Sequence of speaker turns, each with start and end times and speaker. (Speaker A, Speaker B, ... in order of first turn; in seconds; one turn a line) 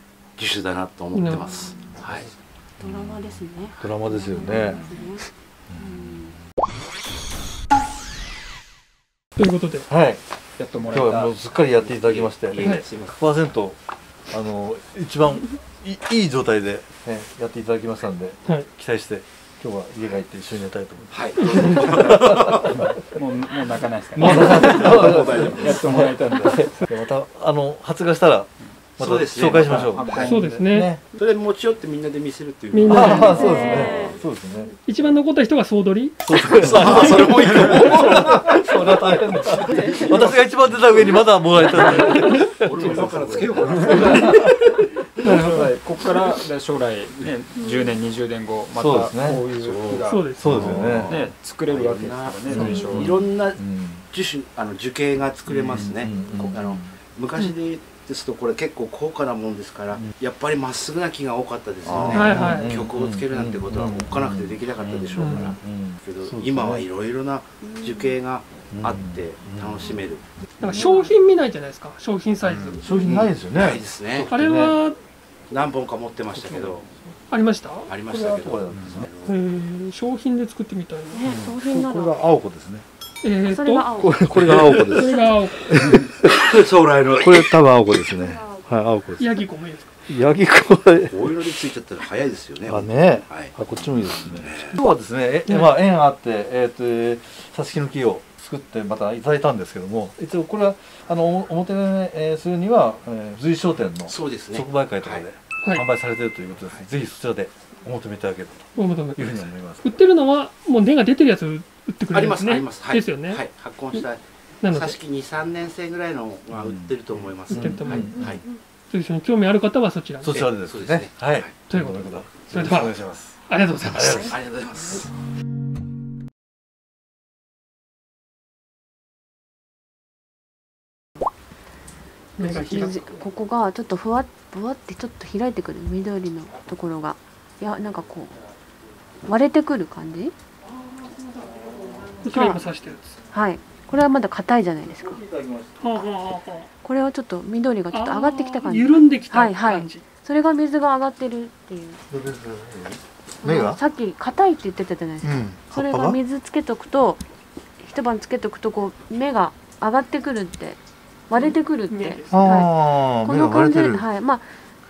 Speaker A: 0.4-2.3
Speaker B: 1.1-1.5
Speaker C: 2.0-3.1
Speaker D: 2.8-6.3
Speaker C: 3.8-4.8
Speaker C: 5.7-6.1
Speaker B: 9.3-9.9
Speaker C: 9.9-10.2
Speaker E: 10.6-13.2
Speaker C: 10.8-13.8
Speaker A: 12.5-13.1
Speaker B: 12.6-12.8
Speaker C: 14.3-22.9
Speaker A: 21.1-22.8
Speaker B: 21.4-21.9
Speaker E: 21.5-26.7
Speaker C: 24.1-31.0
Speaker A: 24.2-25.6
Speaker A: 29.0-30.2
Speaker E: 29.5-30.6
Speaker B: 30.2-30.9
Speaker A: 31.1-34.1
Speaker B: 32.7-33.8
Speaker C: 32.9-34.7
Speaker D: 33.1-34.2
Speaker B: 34.9-37.9
Speaker C: 36.2-43.2
Speaker A: 36.4-38.7
Speaker A: 39.7-40.3
Speaker A: 42.0-44.4
Speaker E: 42.6-44.2
Speaker C: 43.9-44.5
Speaker B: 44.2-44.5
Speaker B: 45.2-45.7
Speaker E: 45.2-53.1
Speaker C: 45.2-45.6
Speaker C: 48.7-49.4
Speaker A: 49.5-70.2
Speaker B: 50.0-50.6
Speaker C: 50.4-51.2
Speaker B: 52.5-53.1
Speaker D: 52.5-53.1
Speaker C: 52.9-54.0
Speaker C: 55.7-56.9
Speaker C: 61.8-66.8
Speaker B: 62.1-62.8
Speaker B: 65.2-65.5
Speaker C: 68.7-70.0
Speaker B: 70.6-73.1
Speaker C: 70.6-70.9
Speaker D: 70.6-71.1
Speaker C: 72.4-74.8
Speaker A: 73.0-74.3
Speaker B: 74.3-75.0
Speaker A: 75.5-76.9
Speaker B: 77.3-77.9
Speaker A: 77.9-79.4
Speaker C: 78.1-79.1
Speaker B: 79.2-81.2
Speaker D: 81.1-82.2
Speaker C: 81.2-82.8
Speaker B: 83.2-84.0
Speaker D: 83.5-84.8
Speaker C: 84.0-86.5
Speaker A: 84.3-85.0
Speaker B: 84.9-85.8
Speaker A: 85.7-87.6
Speaker C: 87.1-89.3
Speaker D: 88.1-88.7
Speaker B: 89.2-90.0
Speaker C: 90.1-91.4
Speaker A: 91.1-93.5
Speaker C: 92.7-109.8
Speaker A: 94.4-94.8
Speaker B: 95.5-95.7
Speaker A: 104.1-105.2
Speaker B: 108.8-113.4
Speaker A: 112.1-118.4
Speaker B: 114.6-115.0
Speaker C: 116.6-116.9
Speaker C: 117.5-118.3
Speaker B: 117.5-118.3
Speaker B: 118.9-120.3
Speaker C: 120.2-123.3
Speaker A: 120.3-121.5
Speaker B: 121.7-124.4
Speaker C: 123.9-124.3
Speaker A: 124.0-125.1
Speaker B: 132.4-133.0
Speaker D: 132.4-138.4
Speaker D: 139.2-140.3
Speaker C: 141.7-142.2
Speaker B: 142.2-143.2
Speaker D: 142.2-142.6
Speaker D: 143.3-145.2
Speaker C: 145.0-145.8
Speaker B: 145.8-146.7
Speaker D: 146.8-152.0
Speaker B: 147.9-150.1
Speaker C: 152.1-153.8
Speaker D: 153.4-157.2
Speaker C: 155.2-156.2
Speaker D: 157.8-164.6
Speaker B: 161.3-162.6
Speaker C: 162.3-164.0